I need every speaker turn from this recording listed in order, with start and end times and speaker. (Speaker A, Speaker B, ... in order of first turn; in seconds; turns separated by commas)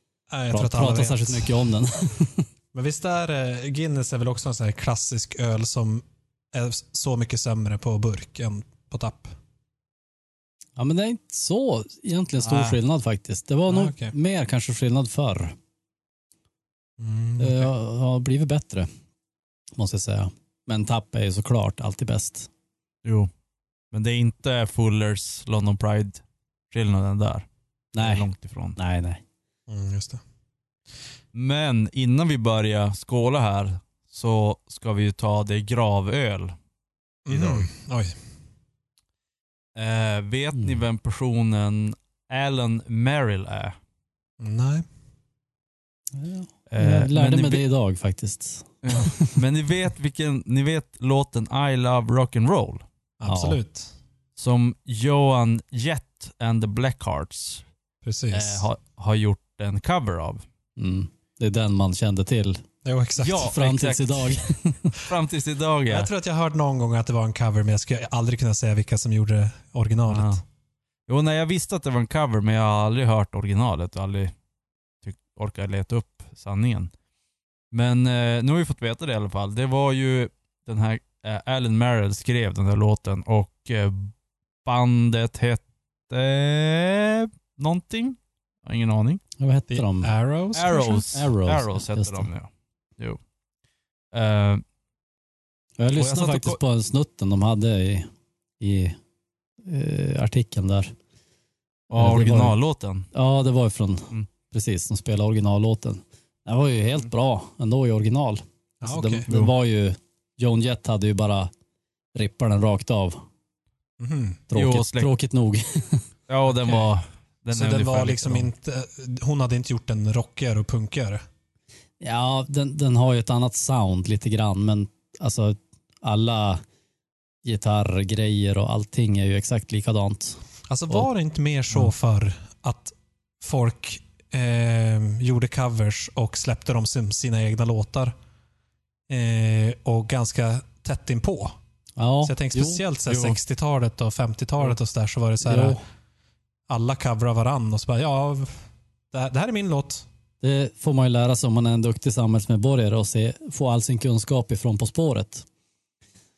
Speaker A: 0.3-1.6, Speaker B: 0.5-2.5, Speaker A: 2.7-9.3, Speaker B: 10.8-15.5, Speaker C: 12.4-12.8, Speaker A: 13.7-14.1, Speaker A: 17.0-17.7, Speaker B: 17.4-18.9, Speaker B: 19.8-22.5, Speaker C: 23.0-23.3, Speaker C: 23.9-27.4, Speaker B: 27.9-29.2, Speaker C: 28.0-28.8, Speaker A: 29.7-30.2, Speaker C: 31.3-36.5, Speaker A: 37.2-38.1, Speaker C: 37.3-37.7, Speaker C: 39.8-43.8, Speaker B: 40.5-40.8, Speaker A: 44.4-44.9, Speaker B: 46.1-49.4, Speaker C: 46.7-47.6, Speaker C: 48.8-52.8, Speaker A: 53.2-53.9, Speaker B: 53.2-53.6, Speaker C: 54.4-57.6, Speaker A: 58.0-58.6, Speaker C: 58.3-60.4, Speaker B: 60.8-62.6, Speaker A: 62.8-63.5, Speaker C: 63.2-64.4, Speaker B: 63.4-65.0, Speaker C: 65.0-66.1, Speaker A: 65.9-70.4, Speaker C: 70.1-70.4, Speaker C: 71.1-74.3, Speaker C: 75.0-76.9, Speaker C: 77.7-84.1, Speaker C: 84.6-89.2, Speaker B: 89.4-90.1, Speaker A: 89.7-91.0, Speaker C: 90.5-93.2, Speaker B: 90.7-92.3, Speaker C: 94.1-94.6, Speaker B: 95.8-98.1, Speaker C: 95.9-96.6, Speaker B: 98.6-99.0, Speaker B: 99.6-100.9, Speaker C: 101.9-103.1, Speaker B: 101.9-102.5, Speaker B: 103.1-111.5, Speaker A: 108.8-109.2, Speaker C: 109.3-109.5, Speaker B: 112.1-113.2, Speaker A: 114.0-114.4, Speaker B: 114.5-116.0, Speaker C: 114.5-115.1, Speaker C: 116.3-118.5, Speaker A: 117.5-121.2, Speaker B: 122.0-126.6, Speaker B: 127.4-131.1, Speaker A: 130.7-138.1, Speaker A: 139.1-141.6, Speaker B: 142.0-142.8, Speaker A: 142.2-145.8, Speaker C: 143.1-143.4, Speaker B: 145.4-145.8, Speaker A: 146.7-150.1, Speaker B: 150.4-155.4